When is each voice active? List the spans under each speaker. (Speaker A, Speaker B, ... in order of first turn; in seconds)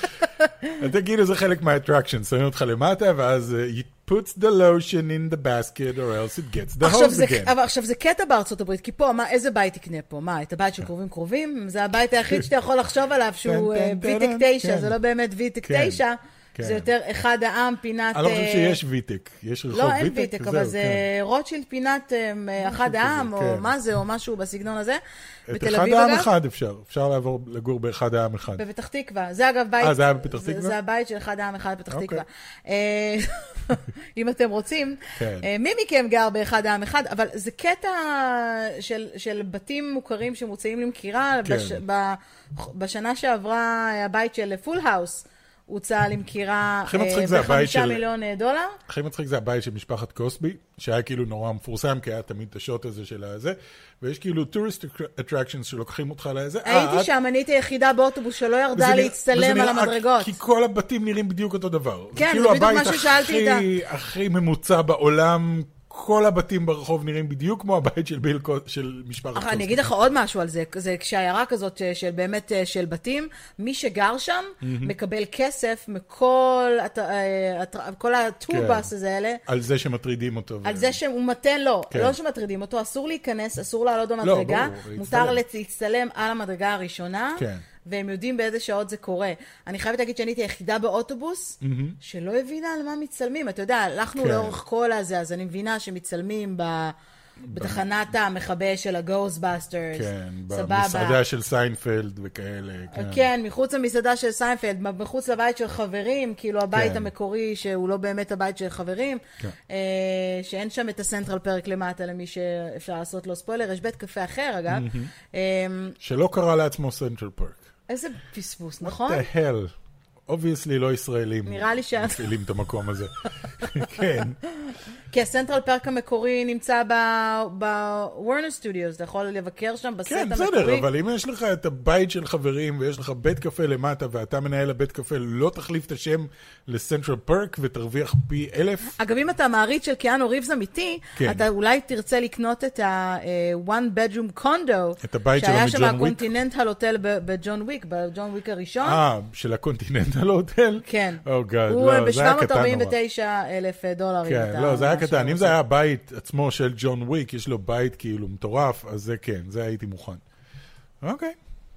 Speaker A: 0.7-7.5, 13.4-14.9, 15.6-16.0, 16.5-16.9, 18.1-21.0, 22.6-23.7, 25.5-28.6, 29.8-30.8, 31.9-32.2, 35.1-35.5, 41.4-41.8, 46.8-48.0, 48.9-57.1, 58.7-69.9, 74.6-74.9, 78.5-78.9, 79.5-81.0, 81.9-82.2, 84.2-85.5, 87.4-87.6, 91.6-92.0, 94.2-94.6, 97.5-97.8, 99.9-103.3, 106.7-107.1, 114.7-115.1, 116.0-117.6, 118.8-119.7, 120.3-124.4, 130.1-139.0, 141.2-141.4, 145.0-146.3, 148.8-152.9, 154.2-160.2, 161.0-161.4
Speaker B: 6.8-18.8, 19.7-26.3, 28.5-48.8, 56.6-60.4, 62.1-63.7, 69.3-79.4, 80.6-96.9, 97.5-101.2, 102.9-116.0, 117.9-119.3, 121.4-122.3, 123.6-124.0, 125.1-130.9, 138.9-149.0, 150.8-155.6